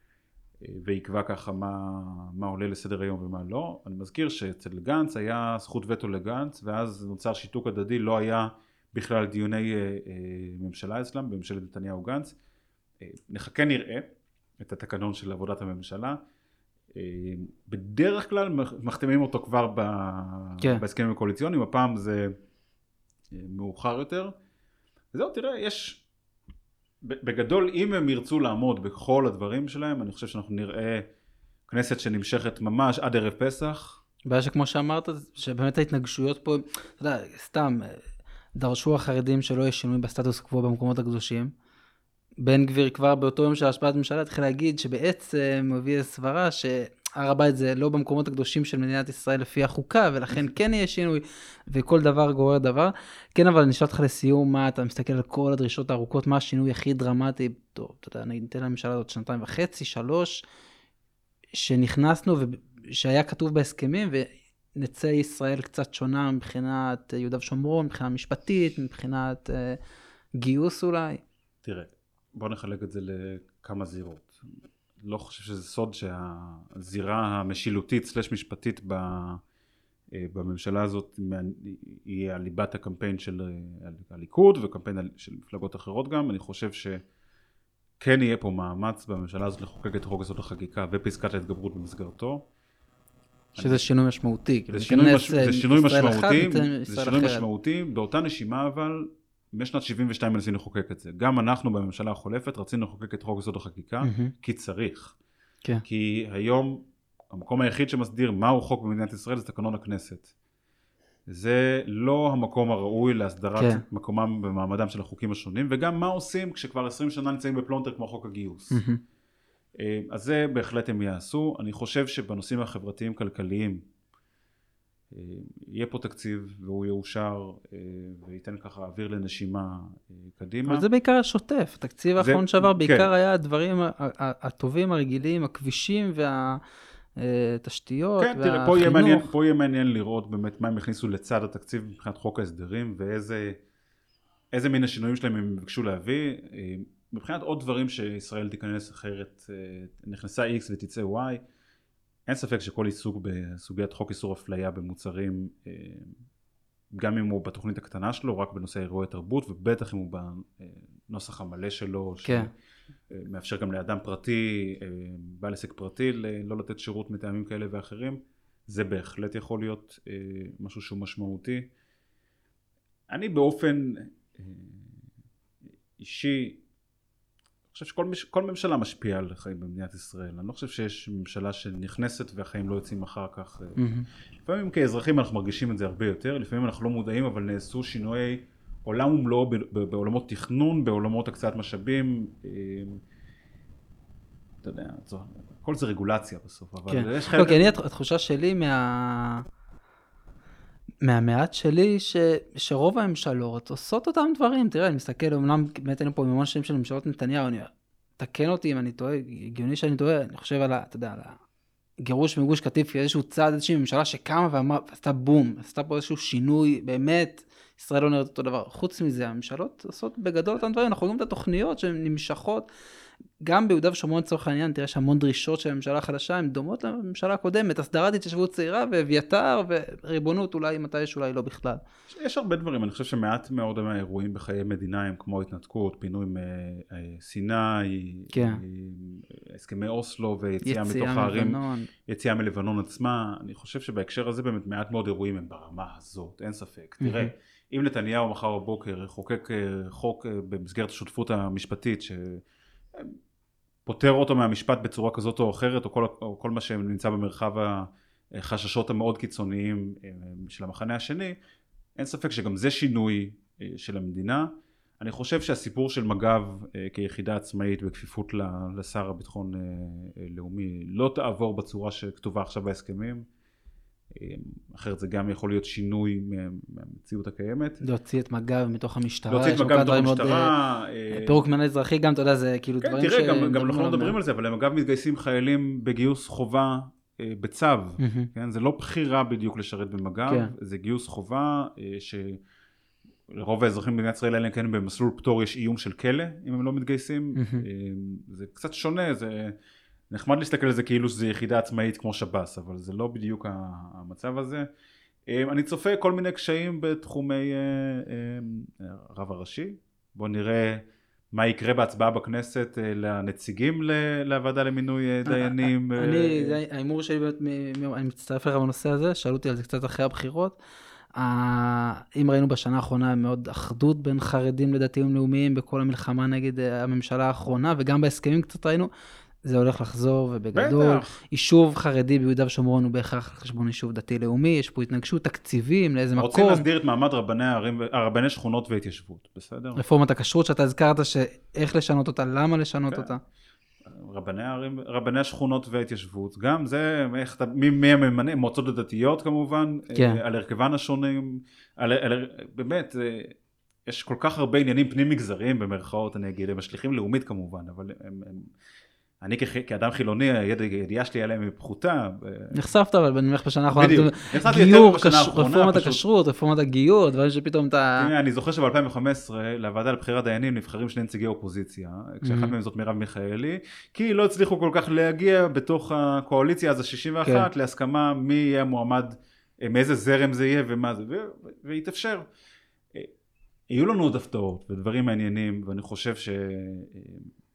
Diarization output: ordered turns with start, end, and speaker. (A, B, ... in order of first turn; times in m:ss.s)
0:00.6-0:12.3 A
0:13.0-0:14.0 A
0:14.6-0:16.2 A
0:16.9-0:22.3 A
0:23.3-0:24.3 A
0:25.1-0:26.0 A
0:27.0-0:31.0 A
0:31.7-0:34.0 A
0:34.2-0:38.0 B
0:38.6-0:41.5 B
0:42.4-1:00.4 B
1:01.5-1:09.8 B
1:10.4-1:11.2 B
1:11.6-1:14.4 A
1:15.0-1:19.4 A
1:20.1-1:27.0 A
1:28.0-1:32.4 A
1:33.5-1:33.8 A
1:33.6-1:37.4 B
1:34.7-1:45.1 A
1:44.0-1:44.3 B
1:45.8-1:50.3 A
1:51.3-1:58.8 A
1:53.6-1:53.8 B
1:58.7-1:59.0 B
1:59.8-2:03.8 A
2:05.1-2:10.8 A
2:10.6-2:16.6 B
2:12.2-2:13.1 A
2:17.2-2:19.3 B
2:18.2-2:23.6 A
2:24.5-2:31.4 A
2:32.3-2:36.1 A
2:36.9-2:42.5 A
2:42.2-2:42.5 B
2:43.1-2:51.7 A
2:53.1-2:55.0 A
2:56.0-2:56.6 A
2:57.7-3:03.8 A
3:03.8-3:04.1 B
3:04.4-3:13.0 A
3:14.6-3:17.7 A
3:16.9-3:19.4 B
3:21.0-3:31.4 B
3:32.0-3:42.7 B
3:43.4-3:51.8 B
3:52.1-4:12.4 A
3:58.3-3:58.6 B
4:00.6-4:01.9 B
4:07.0-4:07.3 B
4:13.8-4:21.4 A
4:22.0-4:24.5 A
4:25.0-4:33.2 A
4:34.1-4:37.8 A
4:37.8-4:40.5 B
4:39.3-4:41.4 A
4:41.1-4:44.1 B
4:42.8-4:52.4 A
4:48.0-4:48.3 B
4:50.3-4:50.5 B
4:53.3-4:59.5 A
4:57.3-4:57.6 B
5:00.1-5:04.7 A
5:05.3-5:16.6 A
5:15.2-5:20.6 B
5:21.2-5:28.9 B
5:29.4-5:36.6 B
5:30.5-5:31.2 A
5:36.2-5:39.8 A
5:39.8-5:43.2 B
5:43.8-5:53.3 A
5:49.9-5:50.2 B
5:53.9-5:58.5 A
5:59.2-6:02.6 A
6:02.5-6:08.1 B
6:03.7-6:06.0 A
6:08.0-6:22.2 A
6:12.2-6:12.5 B
6:23.7-6:27.3 A